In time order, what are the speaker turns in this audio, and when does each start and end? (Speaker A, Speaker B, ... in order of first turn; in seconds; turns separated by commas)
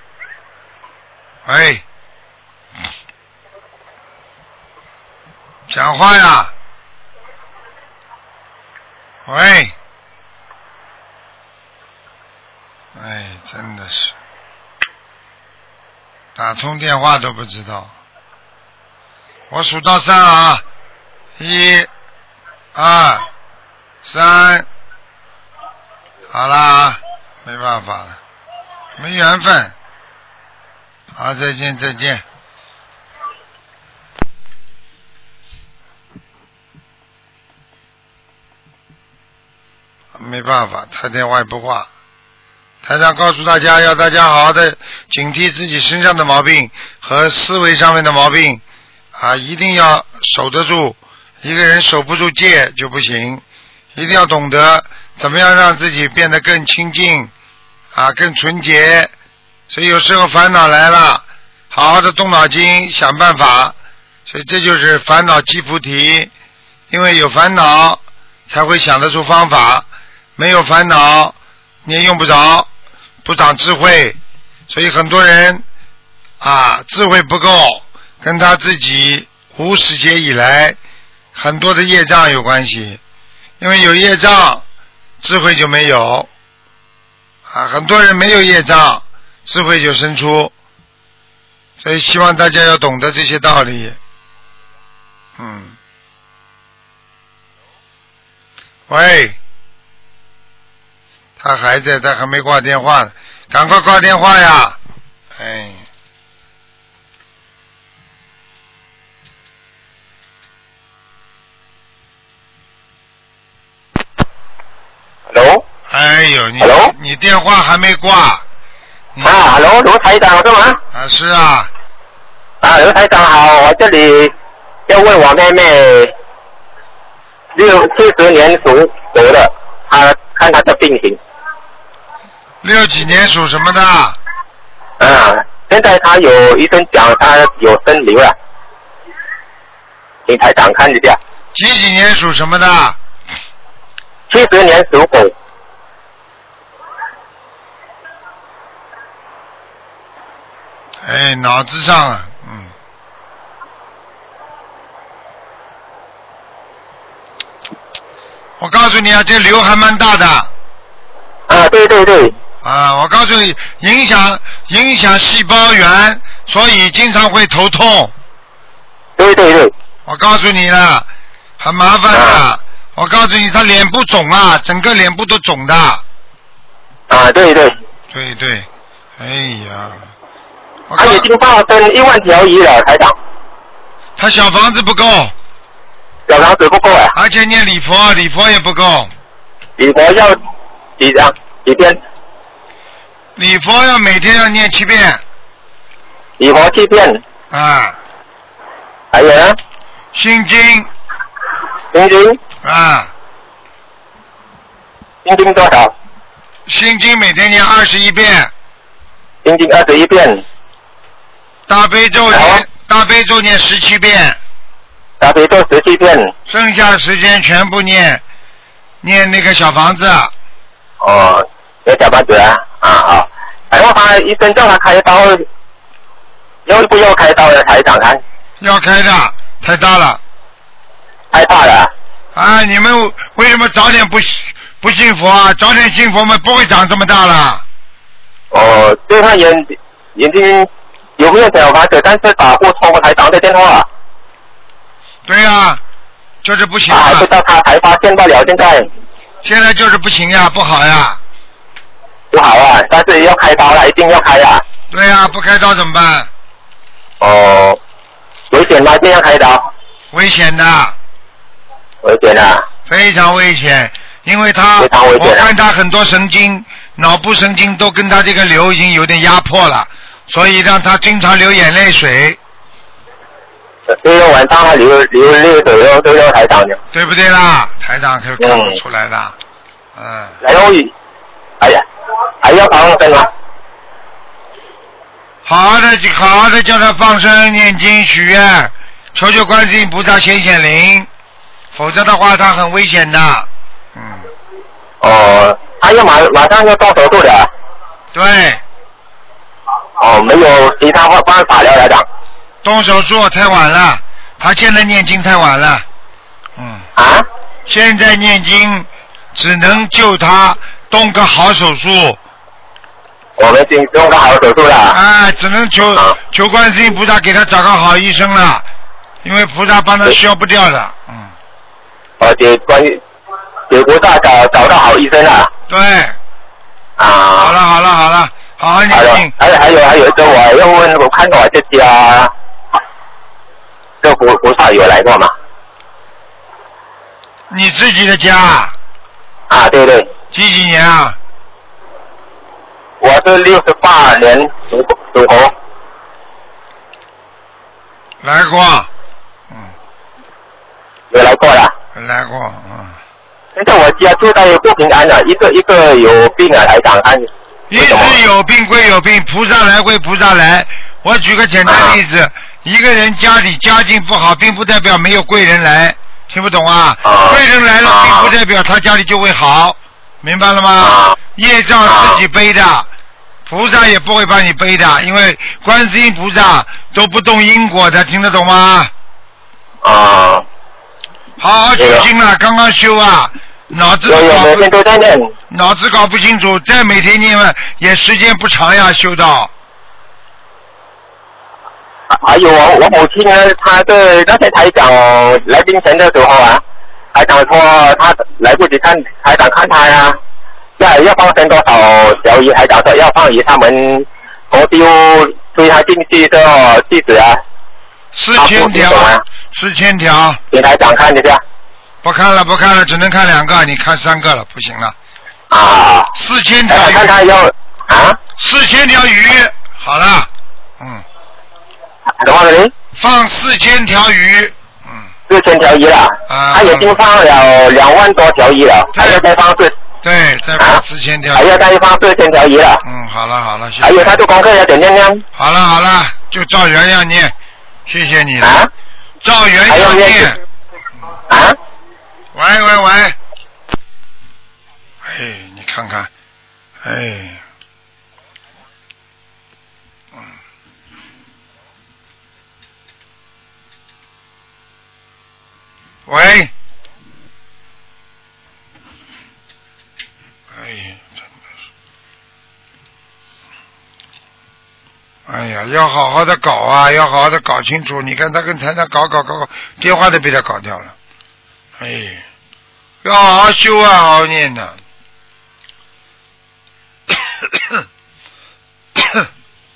Speaker A: 1.4-1.8, Speaker A: 5.7-6.5, Speaker A: 9.2-9.7, Speaker A: 12.9-14.1, Speaker A: 16.3-17.9, Speaker A: 19.5-20.6, Speaker A: 21.4-21.9, Speaker A: 22.7-23.3, Speaker A: 24.0-24.7, Speaker A: 26.3-28.2, Speaker A: 29.0-29.7, Speaker A: 31.1-32.2, Speaker A: 40.1-41.9, Speaker A: 42.8-48.6, Speaker A: 49.1-53.4, Speaker A: 53.9-57.3, Speaker A: 57.9-59.1, Speaker A: 59.7-63.7, Speaker A: 64.3-66.3, Speaker A: 66.9-72.7, Speaker A: 73.2-74.2, Speaker A: 74.7-75.6, Speaker A: 76.4-80.8, Speaker A: 81.3-83.0, Speaker A: 83.6-84.6, Speaker A: 85.2-86.3, Speaker A: 87.5-90.5, Speaker A: 91.8-94.0, Speaker A: 95.4-95.8, Speaker A: 98.9-99.4, Speaker A: 101.4-104.8, Speaker A: 105.3-105.8, Speaker B: 115.3-115.6, Speaker A: 115.9-118.4, Speaker B: 116.6-116.9, Speaker B: 119.2-120.8, Speaker A: 120.9-121.7, Speaker B: 122.6-124.3, Speaker B: 124.9-126.1, Speaker B: 127.5-131.2, Speaker A: 132.6-134.2, Speaker B: 135.0-138.3, Speaker B: 140.3-141.2, Speaker A: 141.5-143.0, Speaker B: 144.3-145.3, Speaker A: 151.0-152.7, Speaker A: 158.6-160.5, Speaker B: 161.5-162.3, Speaker A: 162.6-168.1, Speaker B: 169.2-169.7, Speaker A: 170.1-171.1, Speaker A: 171.6-176.0, Speaker B: 172.1-172.4, Speaker B: 177.1-177.7, Speaker A: 178.1-180.1, Speaker A: 180.9-181.3, Speaker B: 181.0-183.1, Speaker A: 184.2-185.3, Speaker B: 186.3-187.1, Speaker A: 187.1-189.1, Speaker B: 189.8-190.4, Speaker B: 191.0-192.0, Speaker A: 193.3-195.2, Speaker B: 196.4-197.2, Speaker A: 197.5-198.0, Speaker B: 199.1-199.6, Speaker A: 200.1-200.9, Speaker B: 201.9-202.4, Speaker A: 202.6-203.1, Speaker B: 205.2-205.9, Speaker A: 206.7-208.5, Speaker B: 209.4-210.4, Speaker A: 211.7-214.4, Speaker B: 212.3-212.6, Speaker B: 215.2-216.3, Speaker A: 216.5-218.2, Speaker A: 219.0-220.3, Speaker B: 221.0-225.4, Speaker B: 226.7-228.2, Speaker A: 228.6-230.2, Speaker B: 231.3-231.9, Speaker A: 232.3-237.6, Speaker B: 238.5-243.8, Speaker A: 245.2-245.8, Speaker A: 246.4-247.3, Speaker B: 246.9-248.9, Speaker A: 249.4-251.2, Speaker B: 252.3-254.6, Speaker A: 254.9-256.3, Speaker B: 257.2-257.8, Speaker B: 258.5-259.7, Speaker A: 260.1-260.9, Speaker B: 262.0-262.6, Speaker A: 262.9-272.4, Speaker B: 264.8-265.4, Speaker B: 274.0-276.8, Speaker A: 276.9-279.3, Speaker B: 278.4-278.7, Speaker A: 279.9-280.4, Speaker B: 280.4-280.9, Speaker B: 282.4-283.3, Speaker A: 285.4-291.1, Speaker A: 291.7-294.3, Speaker B: 295.0-297.5, Speaker A: 298.1-298.6, Speaker B: 300.0-302.0, Speaker A: 302.6-305.8, Speaker A: 306.6-306.9, Speaker B: 306.9-307.2, Speaker A: 307.7-312.2, Speaker B: 313.4-315.0, Speaker A: 314.9-318.6, Speaker A: 319.2-321.3, Speaker B: 322.2-323.0, Speaker B: 323.7-325.5, Speaker A: 325.7-326.1, Speaker B: 327.0-327.5, Speaker A: 327.4-329.3, Speaker B: 328.9-332.3, Speaker B: 334.0-335.3, Speaker A: 337.5-338.7, Speaker B: 339.5-340.1, Speaker A: 340.3-341.2, Speaker B: 343.0-345.5, Speaker A: 348.2-348.9, Speaker B: 351.1-351.7, Speaker A: 351.9-353.0, Speaker B: 353.6-358.2, Speaker A: 357.7-372.9, Speaker B: 361.7-362.0, Speaker B: 367.0-368.3, Speaker B: 370.8-371.2, Speaker B: 371.9-372.2, Speaker A: 373.4-378.9, Speaker B: 379.8-380.4, Speaker A: 381.4-384.7, Speaker B: 381.8-382.1, Speaker B: 384.1-385.3, Speaker A: 385.5-389.5, Speaker B: 392.1-396.6, Speaker B: 397.1-400.2, Speaker B: 400.8-407.4, Speaker A: 408.1-410.4, Speaker B: 408.4-409.2, Speaker B: 410.5-411.4, Speaker A: 412.0-414.9, Speaker B: 415.5-416.1, Speaker A: 416.1-417.1, Speaker B: 416.7-418.2, Speaker A: 418.4-421.0, Speaker B: 422.2-422.7, Speaker A: 422.9-425.1, Speaker B: 425.3-429.7, Speaker A: 426.3-427.0, Speaker A: 428.9-429.2, Speaker A: 430.0-431.7, Speaker B: 431.3-432.8, Speaker A: 432.8-434.2, Speaker B: 433.8-435.2, Speaker A: 435.4-437.3, Speaker A: 437.9-438.6, Speaker B: 438.4-438.7, Speaker A: 439.2-440.4, Speaker B: 439.7-440.3, Speaker B: 441.3-441.6, Speaker A: 442.3-443.1, Speaker A: 445.0-446.1, Speaker A: 446.8-447.4, Speaker A: 456.1-456.5, Speaker A: 460.5-461.2, Speaker A: 465.3-470.9, Speaker A: 471.8-472.2, Speaker A: 473.0-474.8, Speaker A: 477.5-477.8, Speaker A: 479.0-479.2